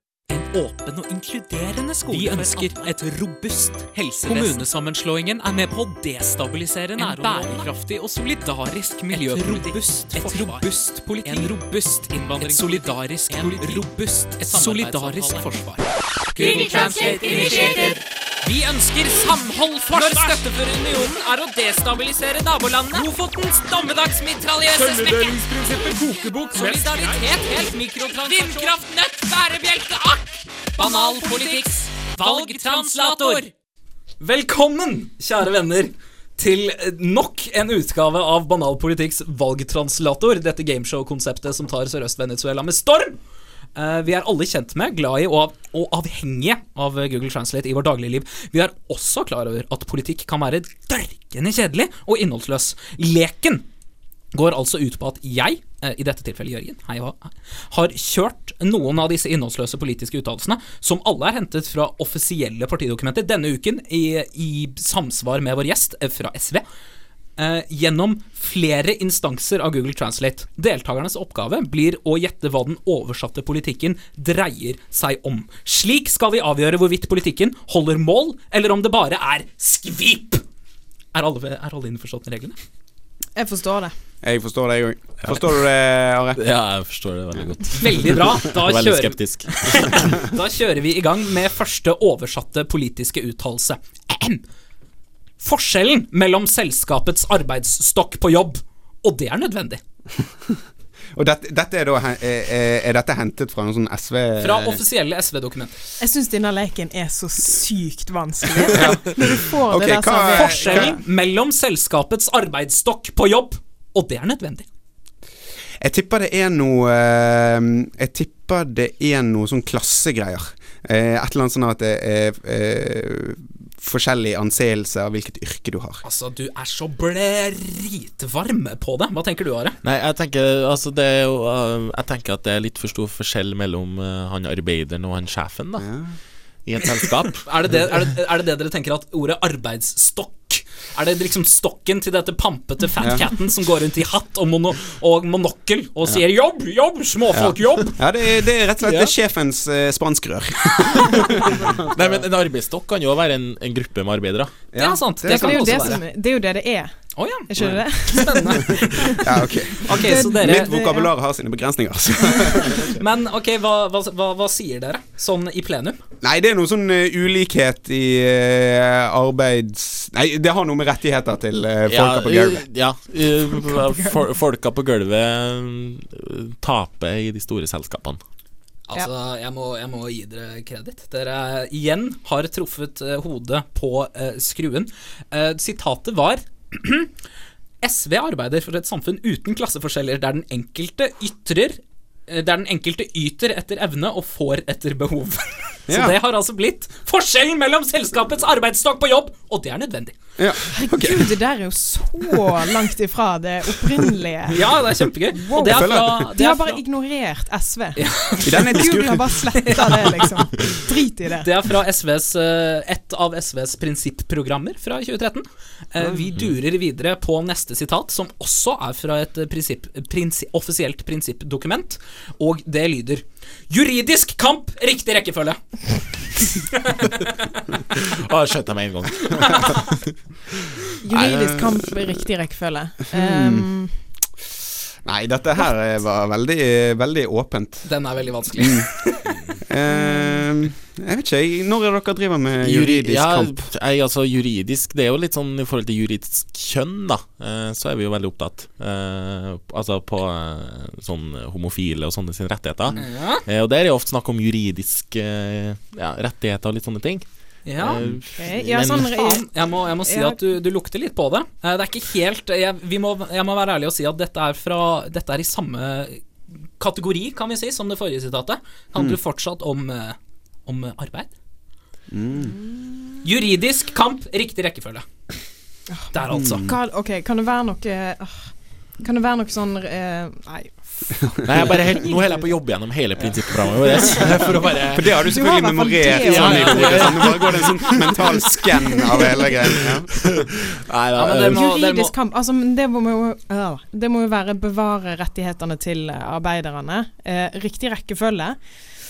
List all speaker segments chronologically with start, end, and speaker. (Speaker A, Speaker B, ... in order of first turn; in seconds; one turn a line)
Speaker A: 0.3-21.2
Speaker B: 0.3-2.9
Speaker B: 3.9-4.6
Speaker B: 6.9-7.7
Speaker B: 9.1-15.8
Speaker B: 16.3-30.2
Speaker A: 24.4-29.6
Speaker B: 30.8-33.5
Speaker A: 30.8-33.5
Speaker B: 34.2-43.2
Speaker B: 43.8-53.6
Speaker B: 54.3-66.6
Speaker B: 67.4-80.4
Speaker B: 81.1-82.5
Speaker C: 83.3-83.9
Speaker D: 84.2-86.4
Speaker E: 86.3-90.2
Speaker B: 87.8-94.4
Speaker B: 95.4-99.8
Speaker D: 101.1-104.8
Speaker B: 104.4-105.8
Speaker C: 106.0-111.0
Speaker D: 108.6-111.0
Speaker B: 110.3-114.6
Speaker D: 115.8-126.0
Speaker B: 126.0-129.8
Speaker E: 129.8-135.9
Speaker D: 135.8-136.2
Speaker E: 136.6-137.4
Speaker B: 137.4-148.0
Speaker D: 143.0-143.2
Speaker D: 147.3-152.2
Speaker E: 148.8-149.1
Speaker E: 151.2-154.5
Speaker D: 154.7-155.9
Speaker B: 154.8-156.0
Speaker C: 155.3-156.9
Speaker B: 157.2-157.5
Speaker C: 157.5-161.1
Speaker B: 158.0-159.1
Speaker D: 159.2-163.0
Speaker B: 159.8-160.7
Speaker B: 162.7-166.0
Speaker D: 166.2-172.7
Speaker E: 171.9-178.2
Speaker C: 173.6-174.2
Speaker B: 178.9-187.1
Speaker B: 187.8-200.2
Speaker D: 195.9-196.2
Speaker D: 200.4-201.3
Speaker C: 200.7-204.7
Speaker B: 204.5-206.8
Speaker C: 205.3-211.5
Speaker D: 205.6-206.3
Speaker B: 207.9-208.7
Speaker D: 208.4-210.0
Speaker B: 209.5-210.3
Speaker B: 211.4-227.5
Speaker E: 227.9-230.0
Speaker B: 229.4-229.7
Speaker C: 231.0-233.9
Speaker D: 231.1-231.7
Speaker D: 233.1-233.7
Speaker D: 235.0-237.9
Speaker B: 237.8-239.6
Speaker D: 238.6-238.8
Speaker D: 239.6-243.6
Speaker C: 239.9-240.4
Speaker E: 242.6-259.1
Speaker B: 252.9-253.4
Speaker B: 257.6-258.0
Speaker C: 258.4-260.4
Speaker B: 258.7-266.2
Speaker B: 266.8-271.3
Speaker D: 272.1-272.6
Speaker B: 273.2-275.0
Speaker C: 275.9-282.5
Speaker B: 276.1-276.6
Speaker D: 276.3-276.7
Speaker E: 281.4-285.3
Speaker D: 284.9-290.2
Speaker C: 285.2-287.9
Speaker E: 286.0-289.2
Speaker E: 290.3-291.6
Speaker B: 291.1-292.1
Speaker C: 291.4-298.6